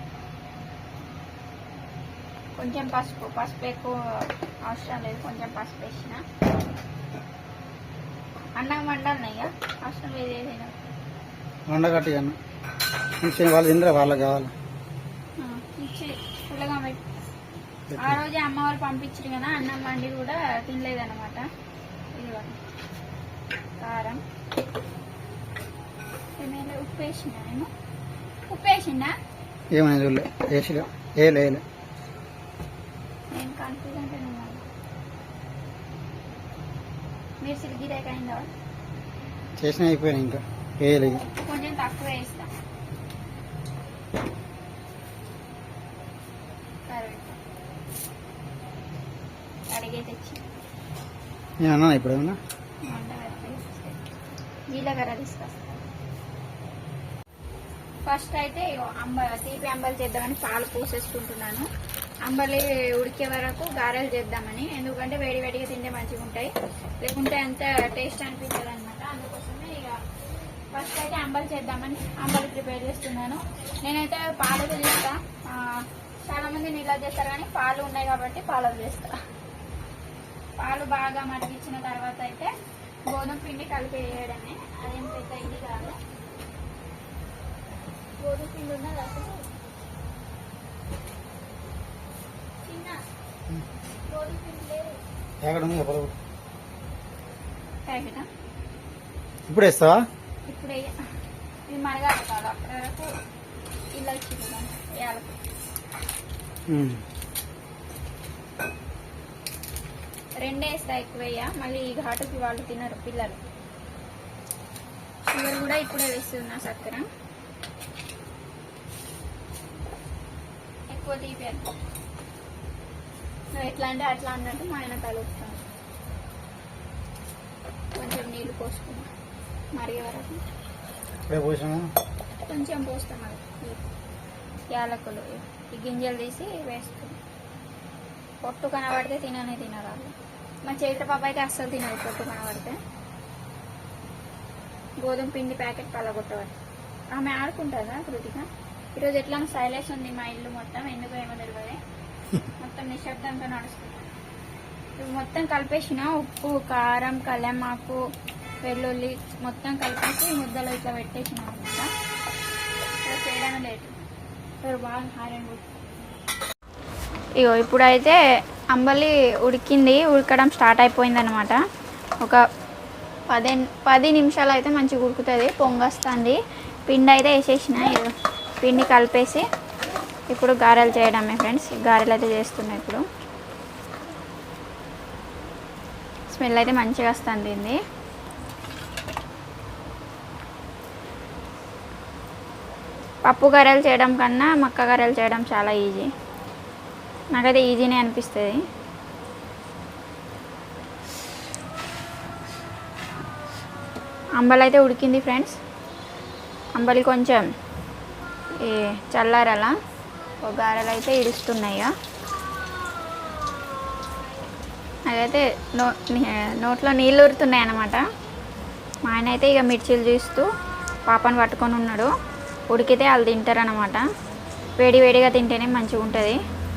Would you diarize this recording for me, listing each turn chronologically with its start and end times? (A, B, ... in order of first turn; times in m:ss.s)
0:02.6-0:06.2 A
0:08.6-0:10.7 A
0:11.7-0:12.4 B
0:13.2-0:14.5 B
0:15.4-0:17.0 A
0:17.9-0:18.2 B
0:18.0-0:21.5 A
0:22.1-0:22.6 A
0:23.8-0:24.2 A
0:26.4-0:27.7 A
0:28.5-0:29.1 A
0:29.7-0:31.6 B
0:33.3-0:34.6 A
0:37.4-0:38.5 A
0:39.6-0:41.3 B
0:41.4-0:42.5 A
0:46.9-0:47.4 A
0:49.7-0:50.5 A
0:51.6-0:52.4 B
0:52.8-0:54.0 A
0:54.7-0:55.8 A
0:58.0-1:01.7 A
1:02.2-1:06.5 A
1:07.0-1:10.0 A
1:10.7-1:19.2 A
1:20.6-1:22.5 A
1:23.1-1:26.0 A
1:28.2-1:29.5 A
1:32.6-1:33.0 A
1:34.1-1:35.0 A
1:35.4-1:36.2 B
1:37.8-1:38.3 A
1:39.5-1:40.1 B
1:40.4-1:41.0 A
1:41.7-1:43.1 A
1:43.9-1:45.4 A
1:46.7-1:47.0 B
1:50.4-1:53.4 A
1:55.2-1:57.0 A
2:00.9-2:01.7 A
2:03.5-2:05.6 A
2:07.9-2:09.1 A
2:09.7-2:10.4 A
2:11.3-2:11.9 B
2:12.4-2:13.8 A
2:14.7-2:17.2 A
2:18.4-2:20.1 A
2:20.6-2:22.8 A
2:25.0-2:26.5 A
2:27.1-2:31.8 A
2:32.6-2:34.1 A
2:35.0-2:38.0 A
2:38.6-2:41.9 A
2:43.0-2:43.9 A
2:44.6-2:45.7 A
2:47.4-2:48.2 A
2:48.7-2:51.6 A
2:53.3-2:59.4 A
3:00.3-3:03.0 A
3:06.3-3:07.8 A
3:13.2-3:16.1 A
3:17.3-3:18.6 A
3:24.4-3:25.6 A
3:26.8-3:27.5 A
3:28.6-3:29.8 A
3:30.4-3:31.9 A
3:35.1-3:38.0 A
3:39.0-3:40.5 A
3:41.0-3:42.1 A
3:42.7-3:44.0 A
3:44.8-3:46.4 A